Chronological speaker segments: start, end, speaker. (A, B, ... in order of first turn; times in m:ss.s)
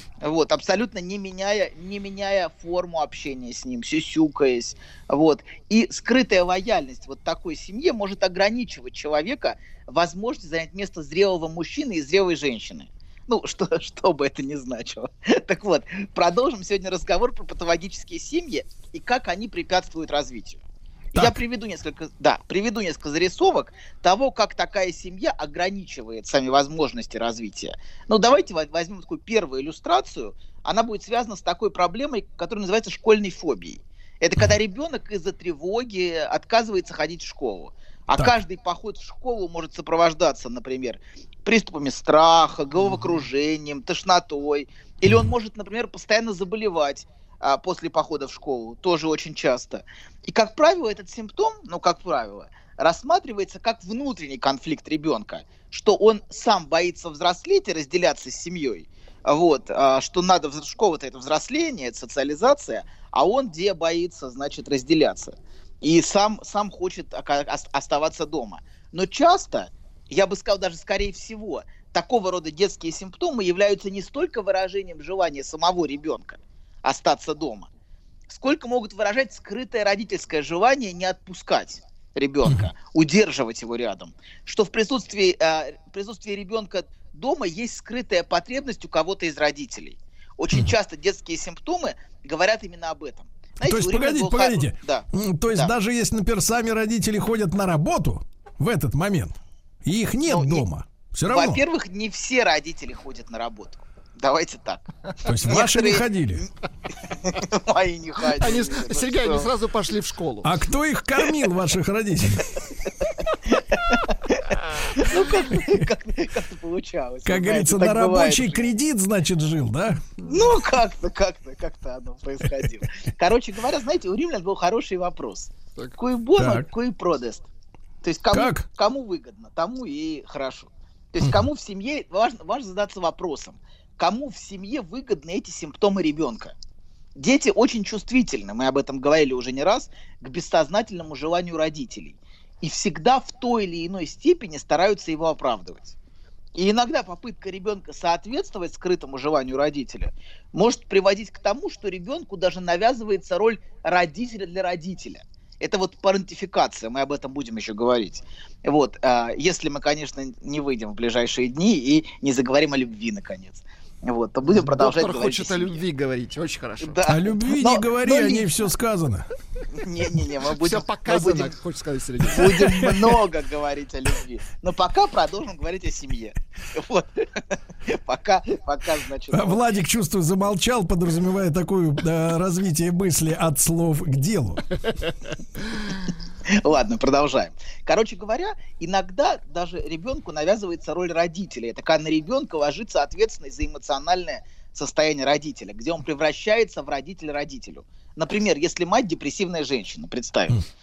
0:00.2-0:20.6 A
0:21.1-1:17.7 A
0:21.1-0:21.4 B
1:18.3-1:35.7 A
1:33.6-1:41.6 B
1:40.3-1:40.6 A
1:41.3-1:44.8 A
1:45.2-1:46.4 B
1:45.4-1:46.5 A
1:47.0-1:49.5 A
1:48.4-1:50.6 C
1:50.4-1:52.7 B
1:53.5-1:58.7 A
1:55.6-1:55.8 B
1:57.2-2:00.0 B
2:00.2-2:07.5 A
2:06.4-2:06.6 B
2:08.0-2:16.5 A
2:08.3-2:08.6 B
2:11.2-2:11.4 B
2:17.2-2:25.9 A
2:26.5-2:45.8 A
2:44.5-2:47.0 C
2:46.8-2:48.7 A
2:47.0-2:49.3 B
2:49.7-2:51.5 A
2:50.5-2:53.0 C
2:52.3-2:59.7 A
2:59.3-3:04.6 B
3:06.5-3:20.6 A